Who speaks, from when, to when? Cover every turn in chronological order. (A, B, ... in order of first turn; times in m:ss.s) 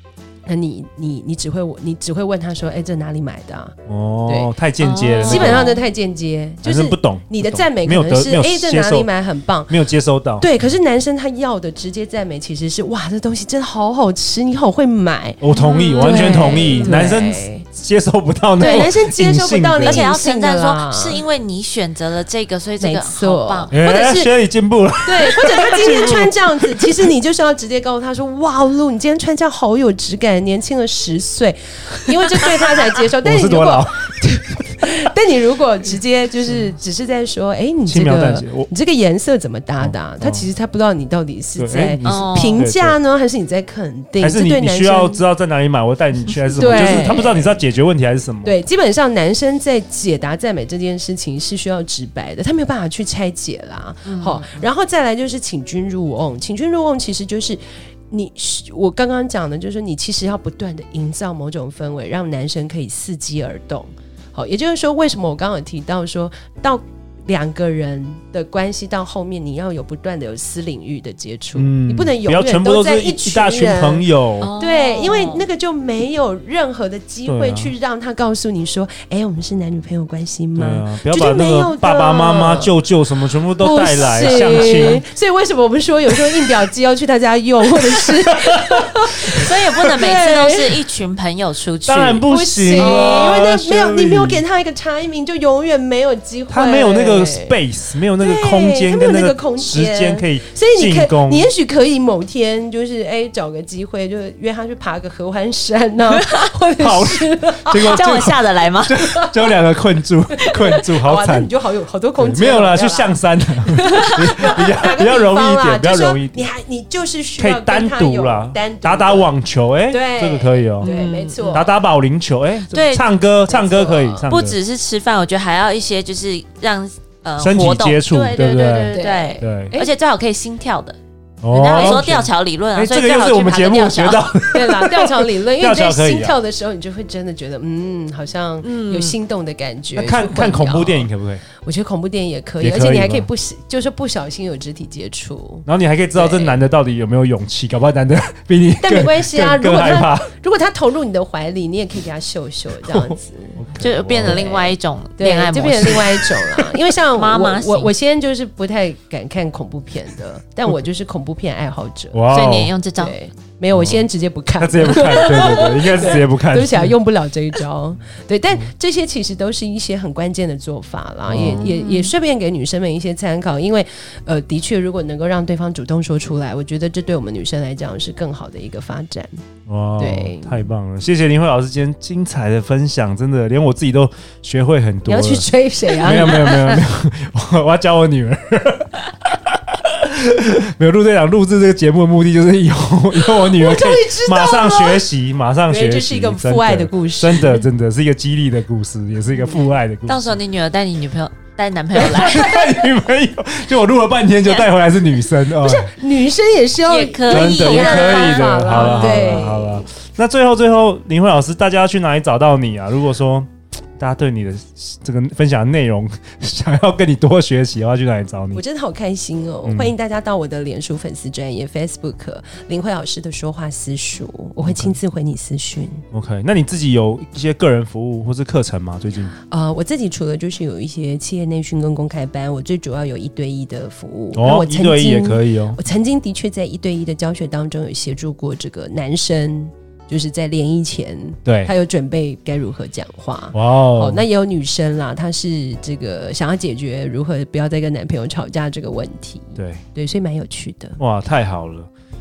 0:00.5-0:03.8 A
0:03.9-0:05.7 B
0:04.3-0:04.5 A
0:04.8-0:05.8 C
0:05.2-0:09.8 A
0:06.6-0:09.1 B
0:09.7-0:10.5 B
0:10.4-0:15.4 A
0:15.4-0:20.1 B
0:15.5-0:17.1 C
0:16.0-0:17.6 A
0:18.6-0:21.2 A
0:19.8-0:23.7 C
0:22.8-0:24.3 A
0:23.7-0:26.7 B
0:25.0-0:45.2 A
0:33.2-0:34.2 B
0:37.9-0:38.7 B
0:39.8-0:40.5 B
0:41.6-0:43.0 B
0:42.0-0:42.6 C
0:44.2-0:48.6 B
0:46.5-0:47.6 A
0:46.7-0:47.1 C
0:48.4-1:22.8 A
0:54.1-0:54.6 C
1:11.6-1:14.5 B
1:14.4-1:15.4 C
1:17.3-1:17.7 B
1:20.6-1:25.0 B
1:23.6-1:30.8 A
1:24.2-1:24.9 C
1:28.0-1:28.7 B
1:29.3-1:33.4 C
1:31.9-1:34.4 B
1:32.2-1:37.6 A
1:36.5-1:41.5 B
1:38.2-1:48.3 A
1:46.8-1:51.5 B
1:47.8-1:49.0 C
1:48.9-1:49.4 A
1:50.4-1:59.3 A
1:52.2-1:56.5 B
1:57.4-2:00.9 B
1:59.9-2:01.7 A
2:00.8-2:01.7 C
2:01.4-2:04.6 B
2:02.7-2:03.1 C
2:03.5-2:04.3 A
2:04.3-2:14.4 C
2:07.4-2:09.8 B
2:08.9-2:09.9 A
2:11.4-2:16.4 B
2:11.7-2:12.1 A
2:14.5-2:26.6 A
2:18.6-2:19.2 C
2:20.0-2:21.4 B
2:22.6-2:23.3 B
2:25.7-2:30.3 B
2:28.8-2:33.6 A
2:32.8-2:34.4 B
2:33.8-2:36.3 C
2:34.2-2:42.2 A
2:37.2-2:37.9 C
2:42.1-2:42.7 B
2:42.3-2:43.2 C
2:43.0-2:59.3 A
2:43.7-2:44.0 B
2:44.6-2:47.0 B
2:51.3-2:51.7 B
2:51.4-2:52.1 C
2:59.7-3:20.4 B
3:00.0-3:00.7 A
3:05.1-3:06.8 A
3:13.2-3:15.1 A
3:15.7-3:17.6 A
3:20.0-3:22.8 C
3:22.0-3:25.9 B
3:25.6-3:29.9 A
3:26.9-3:29.5 C
3:27.3-3:38.6 B
3:38.5-3:46.0 A
3:39.6-3:39.9 B
3:44.6-3:45.0 B
3:46.1-3:49.4 B
3:49.5-4:11.0 A
3:54.3-3:55.8 B
4:01.4-4:01.7 B
4:03.5-4:04.2 B
4:09.6-4:09.8 B
4:11.0-4:11.9 B